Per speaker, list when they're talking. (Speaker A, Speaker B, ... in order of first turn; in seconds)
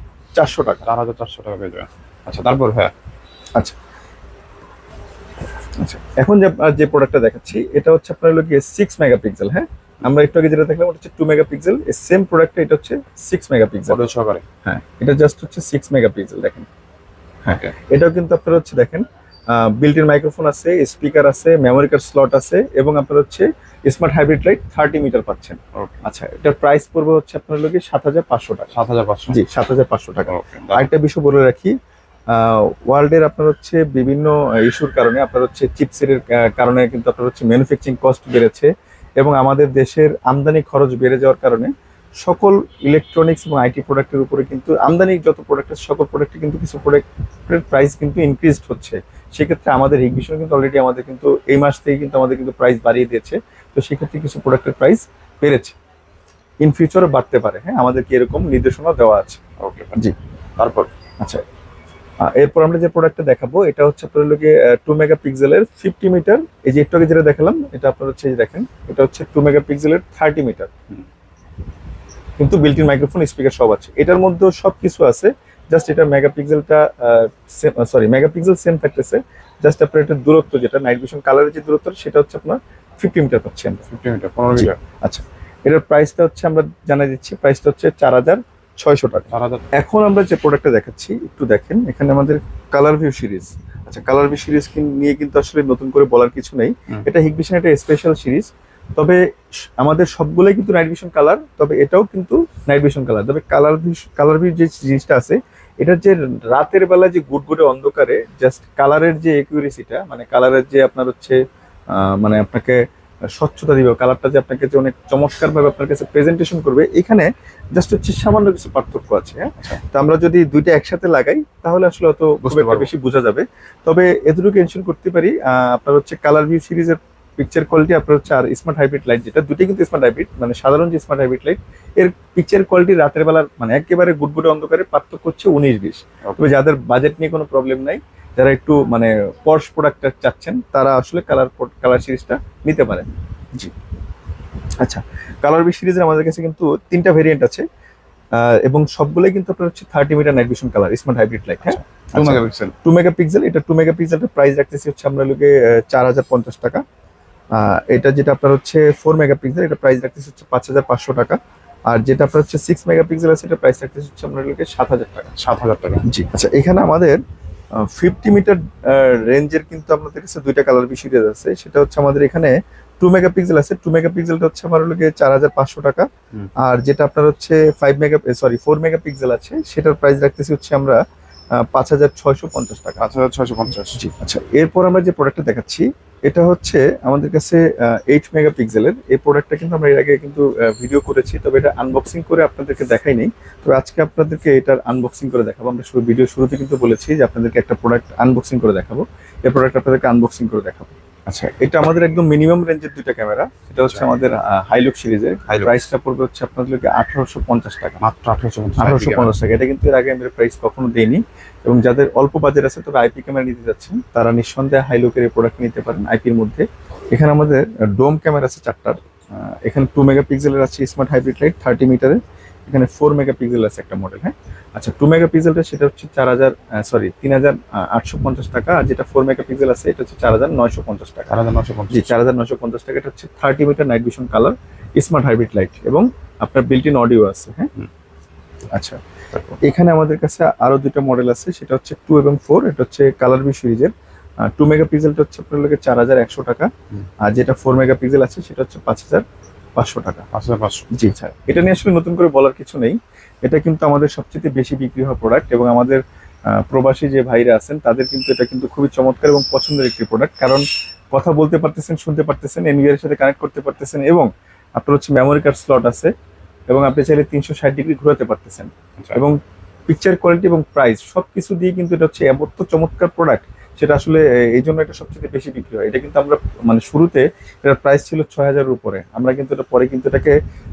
Speaker A: 0.3-0.9, 5.8-14.0, 14.6-16.7, 17.4-28.7, 29.3-31.7, 32.3-41.7, 42.2-55.8, 56.6-59.4, 62.2-70.7, 72.4-83.8, 84.5-99.2, 99.8-143.7, 144.8-147.7, 148.3-156.8, 157.5-165.3, 166.0-167.2, 167.7-176.1, 176.6-181.0, 181.6-183.1, 183.9-208.0, 208.8-231.3, 231.9-237.7, 238.7-246.7, 247.2-249.2, 249.8-250.3, 250.9-266.1, 266.7-280.4
Speaker B: 0.8-2.9, 13.9-14.4, 25.7-26.0, 28.7-29.4, 30.3-30.8, 59.6-60.0, 60.6-60.9, 83.9-84.8, 89.3-89.7, 122.4-122.9, 151.7-152.7, 165.3-166.0, 183.0-184.0, 205.5-205.8, 208.0-209.3, 231.3-232.2, 250.3-250.9